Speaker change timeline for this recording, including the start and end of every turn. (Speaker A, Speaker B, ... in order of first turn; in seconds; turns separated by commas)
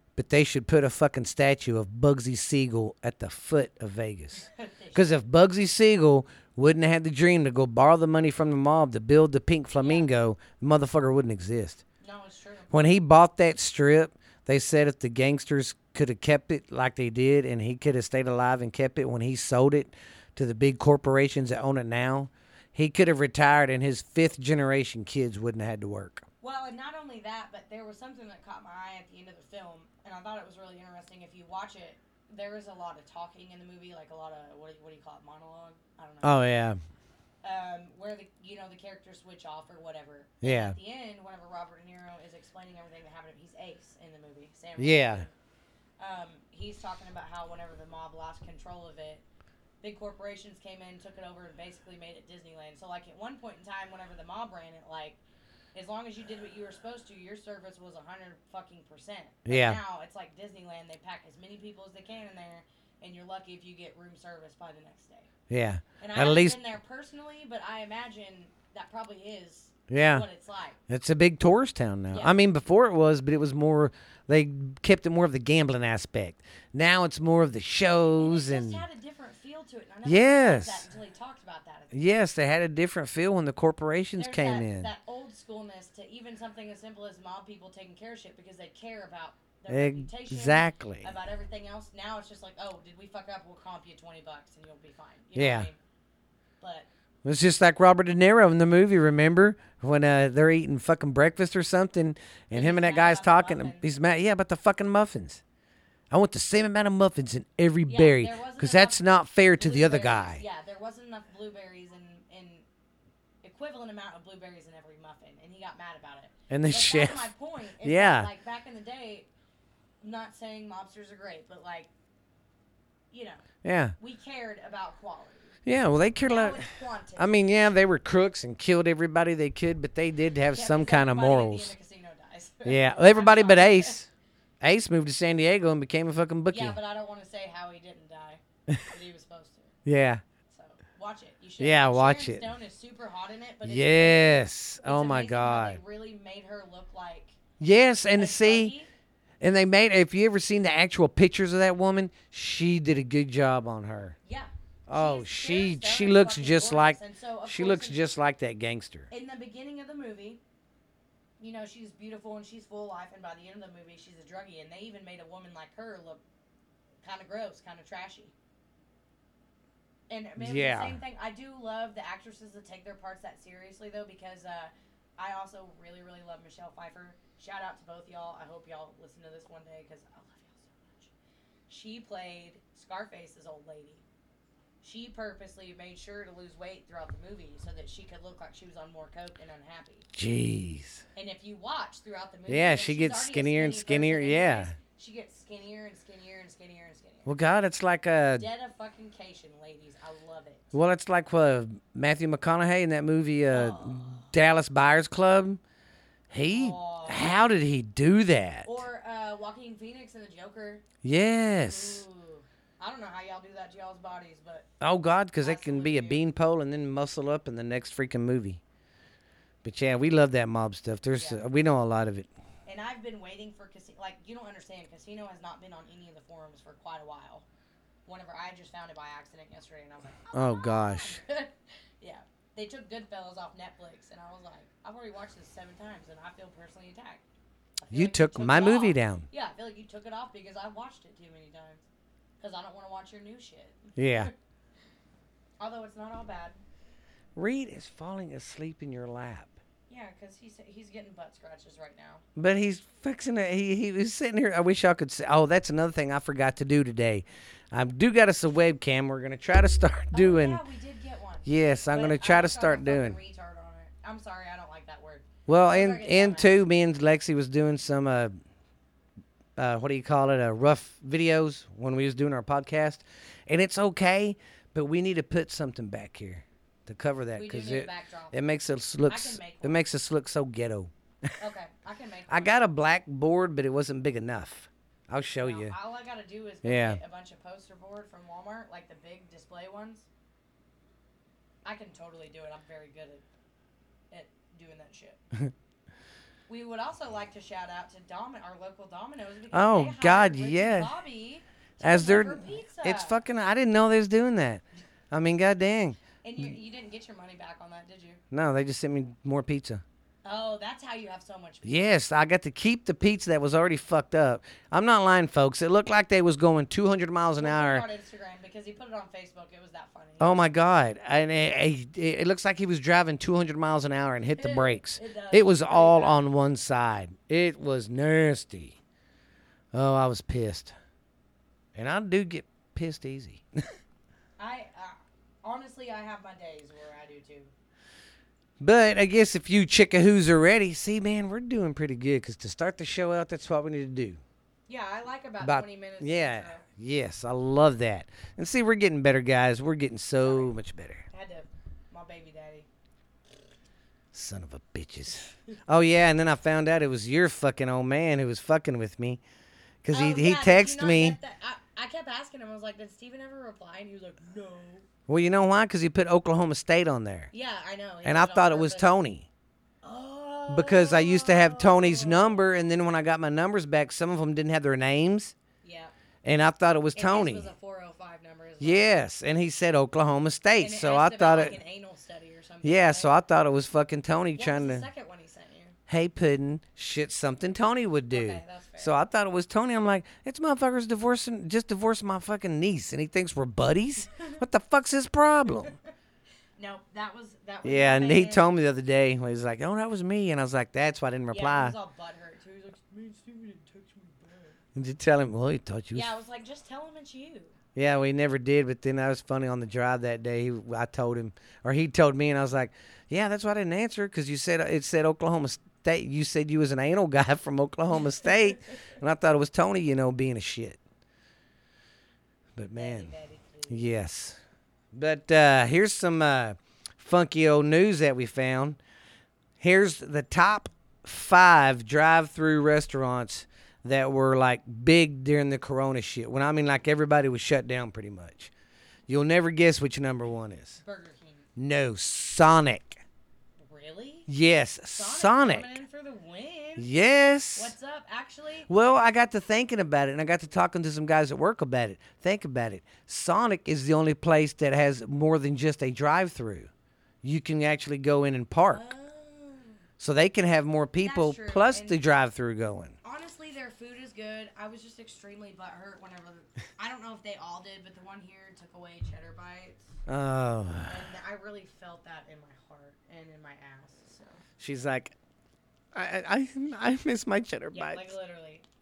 Speaker A: 0.1-4.4, Speaker B: 4.4-5.2, Speaker A: 4.9-11.8, Speaker B: 9.8-10.1, Speaker B: 12.0-12.9, Speaker A: 12.7-26.2, Speaker B: 26.4-36.5, Speaker A: 36.2-36.8, Speaker B: 37.4-45.3, Speaker A: 40.4-40.8, Speaker A: 44.8-45.2, Speaker B: 46.0-49.2, Speaker B: 49.8-55.2, Speaker B: 55.7-65.3, Speaker A: 59.4-59.8, Speaker A: 65.5-66.6, Speaker B: 66.0-70.8, Speaker A: 69.9-70.2, Speaker A: 70.9-78.8, Speaker B: 72.1-72.4, Speaker B: 78.2-82.0, Speaker A: 80.0-80.9, Speaker A: 81.9-84.9, Speaker B: 84.2-95.8, Speaker A: 89.7-91.1, Speaker A: 95.3-95.7, Speaker B: 96.6-96.9, Speaker A: 97.2-105.4, Speaker B: 102.5-103.8, Speaker A: 106.1-110.4, Speaker B: 107.9-109.0, Speaker B: 109.6-112.7, Speaker B: 113.4-119.3, Speaker A: 116.5-117.3, Speaker A: 117.8-118.3, Speaker B: 120.0-121.9, Speaker B: 123.1-123.5, Speaker A: 123.6-123.9, Speaker B: 124.0-125.6, Speaker A: 125.7-131.7, Speaker B: 126.2-127.3, Speaker B: 130.5-134.0, Speaker A: 132.6-134.1, Speaker A: 134.6-136.8, Speaker B: 136.5-139.7, Speaker A: 139.8-140.2, Speaker B: 140.5-147.4, Speaker A: 141.6-142.5, Speaker A: 143.6-145.8, Speaker A: 147.6-148.7, Speaker B: 148.1-148.9, Speaker A: 149.4-154.2, Speaker B: 154.2-158.0, Speaker A: 154.9-159.1, Speaker B: 159.1-160.4, Speaker B: 161.4-166.2, Speaker B: 167.0-168.3, Speaker B: 170.1-181.1, Speaker A: 170.4-171.0, Speaker B: 181.7-184.0, Speaker B: 184.8-190.1, Speaker A: 190.1-191.0, Speaker B: 191.1-197.3, Speaker A: 192.5-194.7, Speaker A: 197.2-198.4, Speaker B: 198.3-200.7, Speaker A: 200.7-205.6, Speaker B: 203.5-204.3, Speaker A: 206.3-208.8, Speaker B: 206.5-207.4, Speaker B: 208.6-210.8, Speaker A: 211.0-212.0, Speaker B: 211.6-214.7, Speaker A: 214.8-218.6, Speaker B: 215.4-216.2, Speaker A: 219.6-222.3, Speaker B: 221.2-221.4, Speaker B: 222.7-227.4, Speaker B: 228.1-237.2, Speaker A: 230.3-231.2, Speaker B: 237.8-241.8, Speaker A: 237.9-239.3, Speaker B: 242.4-244.3, Speaker A: 244.0-244.3, Speaker B: 245.6-246.6, Speaker A: 247.3-249.6, Speaker B: 249.9-252.2, Speaker A: 252.3-260.6, Speaker B: 260.1-266.6, Speaker A: 261.4-263.2, Speaker A: 265.5-268.3, Speaker A: 269.6-281.3, Speaker B: 277.4-278.5, Speaker B: 279.1-279.8, Speaker B: 281.4-282.6, Speaker A: 282.3-285.8, Speaker B: 285.4-290.1, Speaker A: 286.6-287.0, Speaker B: 291.6-293.2, Speaker B: 294.1-295.2, Speaker B: 296.5-303.2, Speaker A: 299.5-300.9, Speaker A: 301.8-306.5, Speaker B: 306.2-308.2, Speaker A: 308.3-309.8, Speaker B: 310.2-311.8, Speaker A: 311.6-317.9, Speaker B: 317.4-320.4, Speaker A: 320.2-328.8, Speaker B: 324.3-326.2, Speaker A: 329.7-330.7, Speaker A: 331.7-333.4, Speaker B: 334.4-337.5, Speaker A: 338.6-344.2, Speaker B: 344.7-346.6, Speaker A: 345.4-351.1, Speaker B: 350.2-350.5, Speaker B: 351.1-352.7, Speaker A: 354.1-359.2, Speaker B: 355.1-355.6, Speaker A: 359.8-361.2, Speaker B: 359.9-364.9, Speaker A: 365.1-367.3, Speaker B: 367.3-368.9, Speaker A: 368.0-369.3, Speaker B: 369.8-372.7, Speaker A: 370.5-375.3, Speaker B: 375.6-375.9, Speaker A: 376.2-377.5, Speaker B: 376.9-378.9, Speaker A: 378.6-381.6, Speaker B: 380.6-383.2, Speaker A: 382.6-384.9, Speaker B: 384.4-385.8, Speaker A: 385.9-395.7, Speaker B: 388.1-389.0, Speaker B: 394.0-394.4, Speaker B: 396.6-398.5, Speaker A: 397.6-401.7, Speaker B: 401.3-404.6, Speaker A: 404.7-406.1, Speaker B: 405.9-407.6, Speaker A: 407.7-420.8, Speaker B: 418.0-418.9, Speaker A: 422.6-423.1, Speaker B: 422.7-423.9, Speaker A: 423.7-424.4, Speaker A: 424.9-428.8, Speaker A: 429.6-438.5, Speaker A: 439.1-440.8, Speaker B: 440.8-441.5, Speaker A: 441.6-443.0, Speaker B: 443.6-444.3, Speaker A: 444.3-445.8, Speaker B: 444.9-446.9, Speaker A: 446.8-447.7, Speaker B: 447.5-448.7, Speaker A: 448.7-456.7, Speaker A: 457.2-458.8, Speaker B: 458.6-459.8, Speaker A: 460.0-462.9, Speaker B: 461.0-462.0, Speaker B: 463.0-469.9, Speaker A: 470.1-471.1, Speaker B: 470.8-474.4, Speaker A: 474.6-475.1, Speaker A: 475.9-478.0, Speaker B: 477.7-478.6